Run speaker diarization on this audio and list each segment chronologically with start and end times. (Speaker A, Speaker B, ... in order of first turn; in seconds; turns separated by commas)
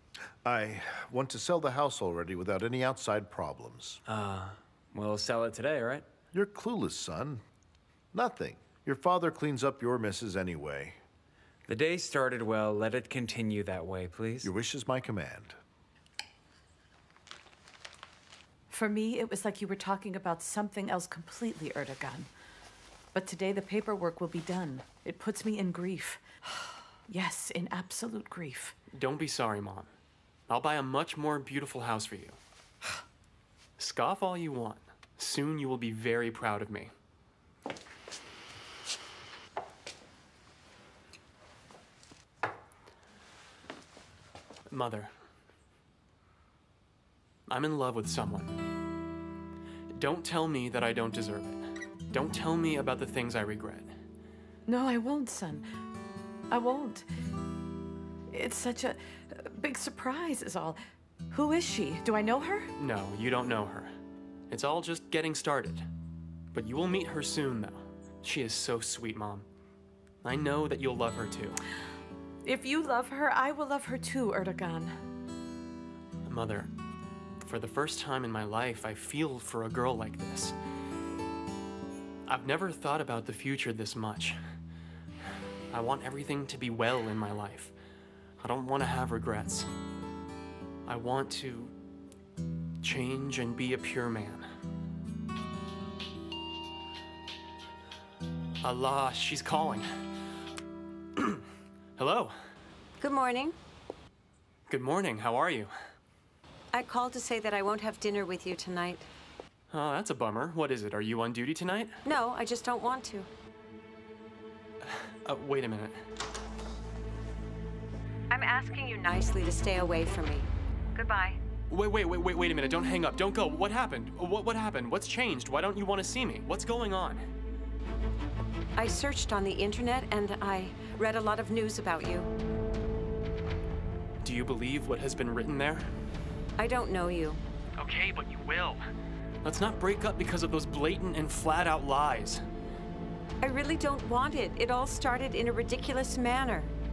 Speaker A: 0.5-4.0, Speaker B: 4.1-6.1, Speaker A: 6.3-7.4, Speaker A: 8.1-11.0, Speaker B: 11.7-14.5, Speaker A: 14.4-15.6, Speaker C: 18.7-22.3, Speaker C: 23.1-26.2, Speaker C: 27.1-28.8, Speaker D: 28.9-29.9, Speaker D: 30.5-32.4, Speaker D: 33.8-36.9, Speaker D: 44.7-45.1, Speaker D: 47.5-48.6, Speaker D: 50.0-53.9, Speaker C: 54.7-55.7, Speaker C: 56.5-57.1, Speaker C: 58.3-60.8, Speaker C: 61.3-62.7, Speaker D: 62.8-63.9, Speaker D: 64.5-65.9, Speaker D: 66.5-69.5, Speaker D: 70.2-71.6, Speaker C: 72.4-75.0, Speaker D: 76.3-76.7, Speaker D: 77.5-80.5, Speaker D: 82.3-84.4, Speaker D: 85.7-87.7, Speaker D: 88.4-89.7, Speaker D: 90.9-91.7, Speaker D: 92.8-94.5, Speaker D: 98.6-99.9, Speaker D: 102.0-102.3, Speaker E: 103.0-103.6, Speaker D: 104.7-105.7, Speaker E: 106.7-109.1, Speaker D: 109.7-112.0, Speaker E: 112.0-113.3, Speaker D: 115.2-116.0, Speaker E: 118.3-121.4, Speaker D: 121.7-127.2, Speaker E: 128.8-132.3, Speaker D: 134.2-135.9, Speaker E: 136.6-137.4, Speaker D: 137.8-138.8, Speaker D: 139.4-142.4, Speaker E: 143.4-146.7